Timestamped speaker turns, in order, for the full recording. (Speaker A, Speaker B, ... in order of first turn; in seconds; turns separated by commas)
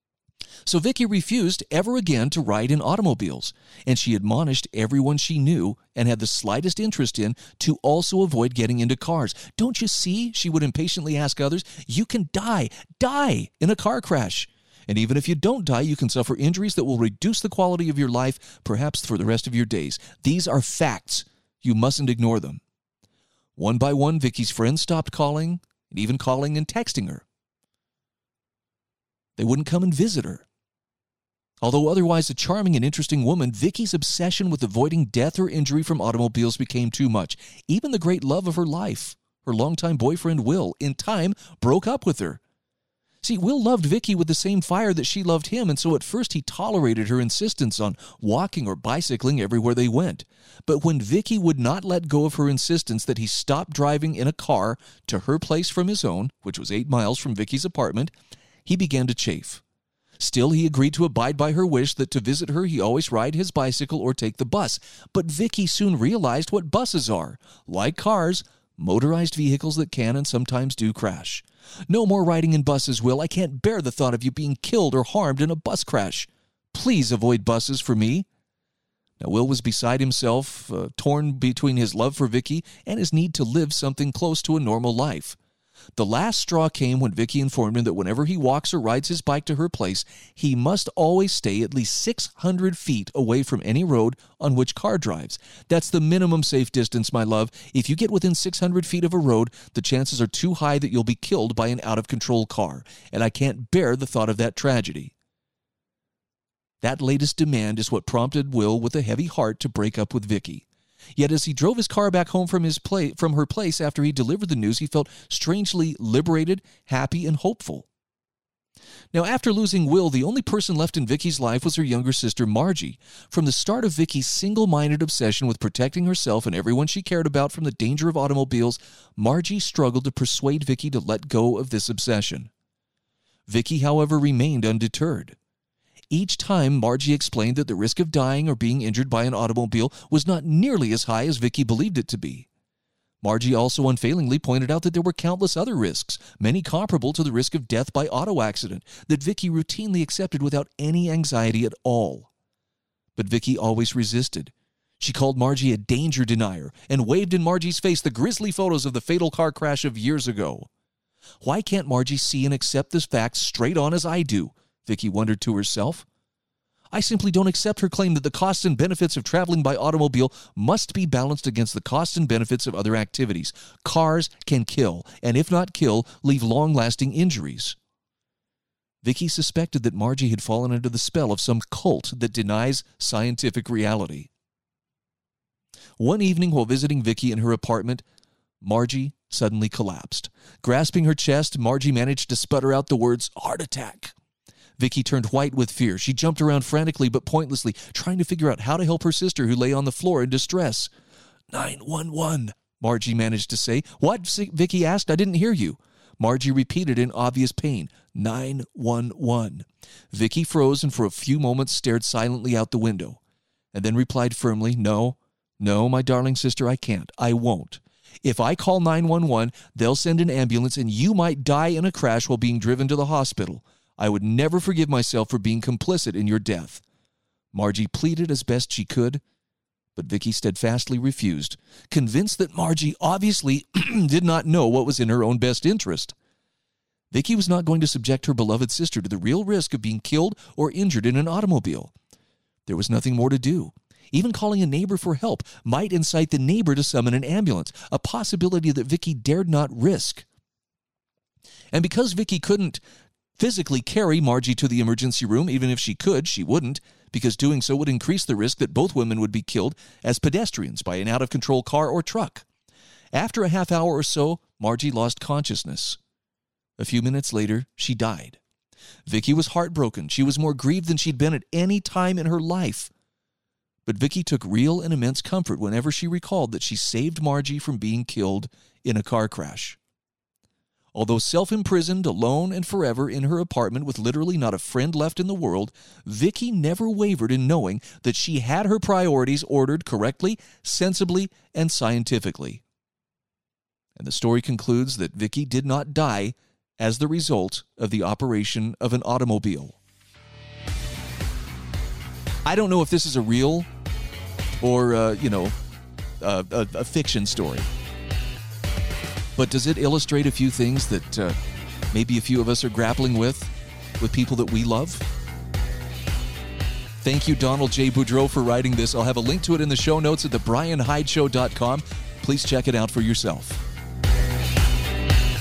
Speaker A: 0.7-22.6, Speaker A: 23.6-27.2, Speaker A: 29.4-30.4, Speaker A: 31.6-42.4, Speaker A: 43.2-58.1, Speaker A: 58.6-59.6, Speaker A: 60.2-78.3, Speaker A: 79.2-85.4, Speaker A: 86.0-105.1, Speaker A: 106.8-110.7, Speaker A: 111.2-117.9, Speaker A: 119.1-132.5, Speaker A: 133.5-135.4, Speaker A: 136.1-142.5, Speaker A: 143.2-152.3, Speaker A: 153.2-160.7, Speaker A: 161.4-166.1, Speaker A: 166.9-177.8, Speaker A: 179.0-184.3, Speaker A: 186.0-188.0, Speaker A: 188.6-194.1, Speaker A: 194.8-200.9, Speaker A: 201.5-213.2, Speaker A: 213.7-226.8, Speaker A: 227.5-229.2, Speaker A: 230.0-236.2, Speaker A: 237.1-241.9, Speaker A: 242.7-250.3, Speaker A: 251.7-252.8, Speaker A: 253.4-262.4, Speaker A: 263.1-266.0, Speaker A: 266.8-268.4, Speaker A: 269.1-272.9, Speaker A: 273.9-279.8, Speaker A: 280.9-292.6, Speaker A: 294.0-299.8, Speaker A: 302.5-303.7, Speaker A: 304.6-305.6, Speaker A: 306.2-307.7, Speaker A: 309.4-311.4, Speaker A: 311.9-315.1, Speaker A: 317.0-323.6